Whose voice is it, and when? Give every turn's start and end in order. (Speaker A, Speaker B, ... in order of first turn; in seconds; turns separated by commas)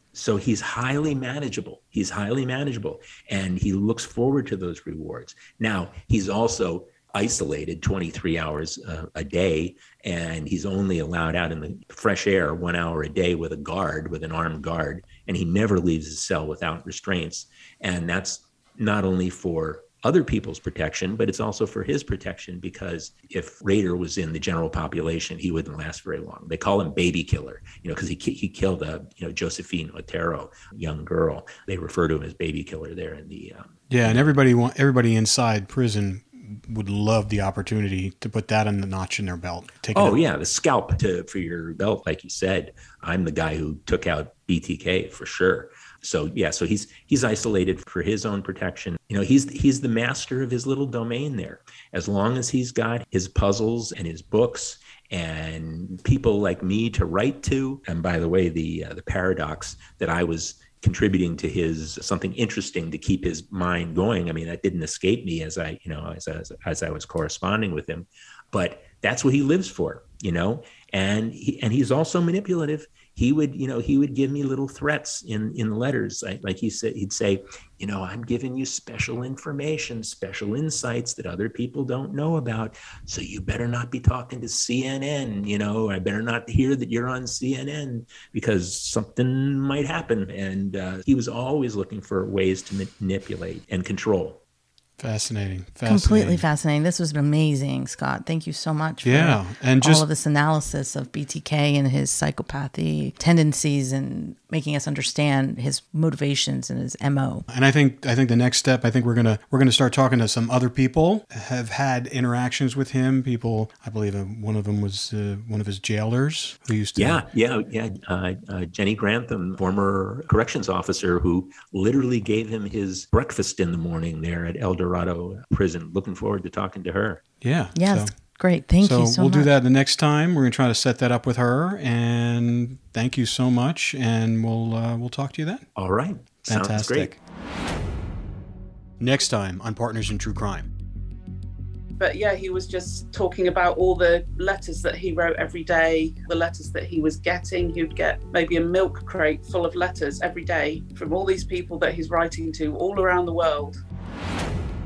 Speaker A: 0.1-34.2, Speaker B: 33.9-40.2, Speaker A: 39.9-94.4, Speaker B: 95.0-96.4, Speaker C: 95.8-107.5, Speaker B: 99.0-100.0, Speaker B: 107.5-117.2, Speaker A: 117.0-127.2, Speaker B: 127.4-128.1, Speaker C: 127.7-129.5, Speaker B: 128.8-135.6, Speaker A: 135.8-137.2, Speaker B: 136.4-137.2, Speaker B: 139.0-140.7, Speaker D: 142.0-153.8